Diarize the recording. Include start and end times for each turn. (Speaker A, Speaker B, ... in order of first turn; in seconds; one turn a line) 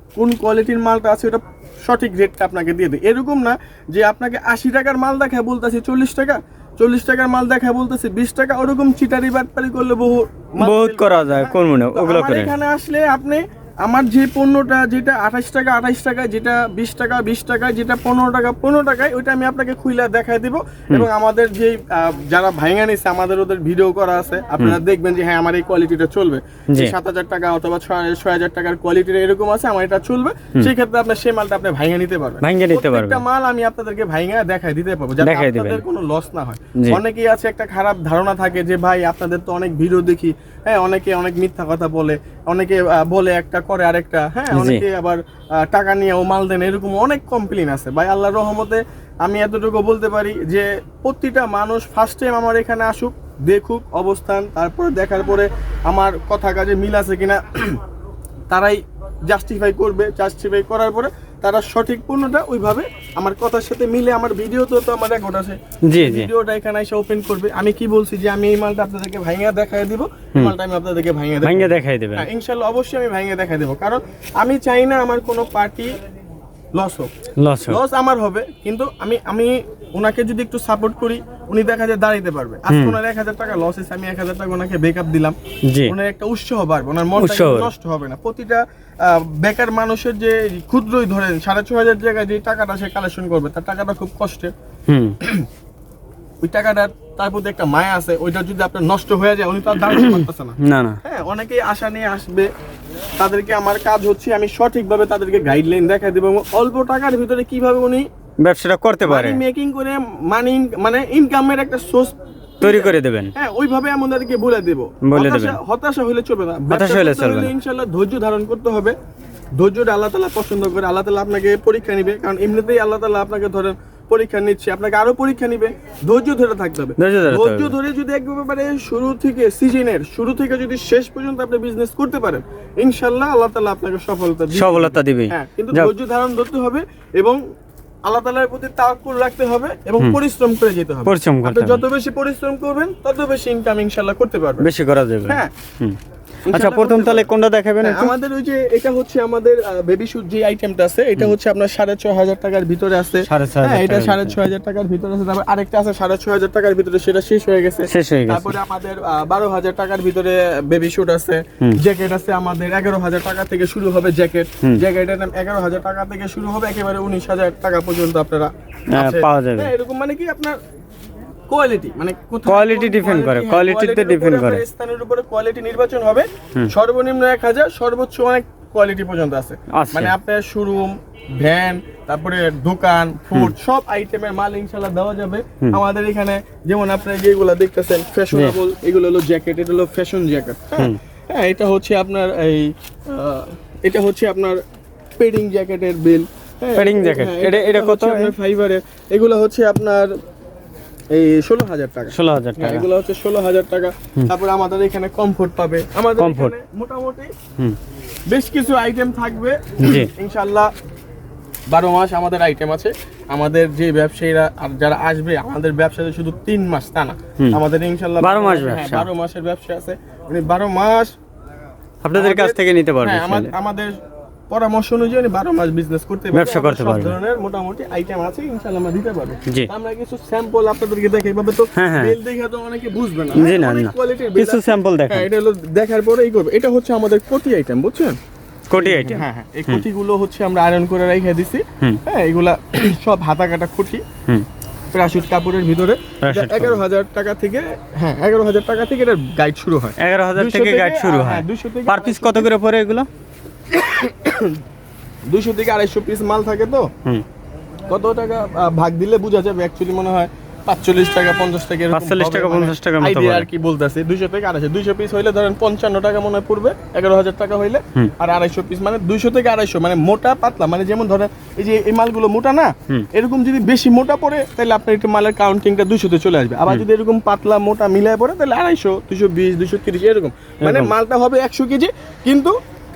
Speaker A: 0.2-57.8
Speaker B: 10.6-12.5
Speaker B: 32.4-33.2
Speaker B: 35.2-35.8
Speaker B: 44.5-44.8
Speaker A: 58.5-75.9
Speaker B: 65.9-66.3
Speaker B: 71.4-72.3
Speaker A: 76.8-77.1
Speaker B: 77.4-77.8
Speaker A: 77.7-85.3
Speaker B: 82.7-83.0
Speaker A: 85.9-94.5
Speaker B: 87.2-87.7
Speaker B: 94.9-95.2
Speaker A: 96.4-102.5
Speaker B: 99.9-101.0
Speaker A: 103.2-108.0
Speaker B: 108.4-109.4
Speaker A: 109.0-118.9
Speaker B: 112.6-113.3
Speaker B: 115.0-115.6
Speaker B: 116.7-117.5
Speaker A: 119.6-137.4
Speaker B: 127.0-127.7
Speaker B: 134.5-135.9
Speaker A: 138.1-144.7
Speaker B: 141.1-141.8
Speaker B: 144.6-146.0
Speaker A: 145.3-145.5
Speaker A: 146.4-147.3
Speaker B: 146.5-148.1
Speaker A: 147.8-170.6
Speaker B: 153.2-154.4
Speaker B: 157.9-158.6
Speaker B: 168.9-169.7
Speaker A: 171.5-194.6
Speaker B: 172.4-174.6
Speaker B: 179.7-180.1
Speaker A: 195.2-200.1
Speaker B: 196.8-198.3
Speaker A: 201.1-207.3
Speaker B: 202.1-202.9
Speaker B: 206.2-206.5
Speaker A: 208.3-210.7
Speaker B: 209.8-210.1
Speaker A: 211.7-221.1
Speaker B: 218.2-219.1
Speaker B: 222.0-223.5
Speaker A: 222.1-223.9
Speaker A: 224.5-238.2
Speaker B: 226.3-227.2
Speaker B: 231.8-232.1
Speaker B: 233.3-235.3
Speaker B: 238.7-239.8
Speaker A: 238.8-244.0
Speaker A: 244.9-252.5
Speaker B: 246.2-246.8
Speaker B: 250.0-253.1
Speaker A: 253.7-254.6
Speaker A: 255.3-256.9
Speaker A: 257.9-282.5
Speaker B: 261.9-263.5
Speaker B: 280.6-280.9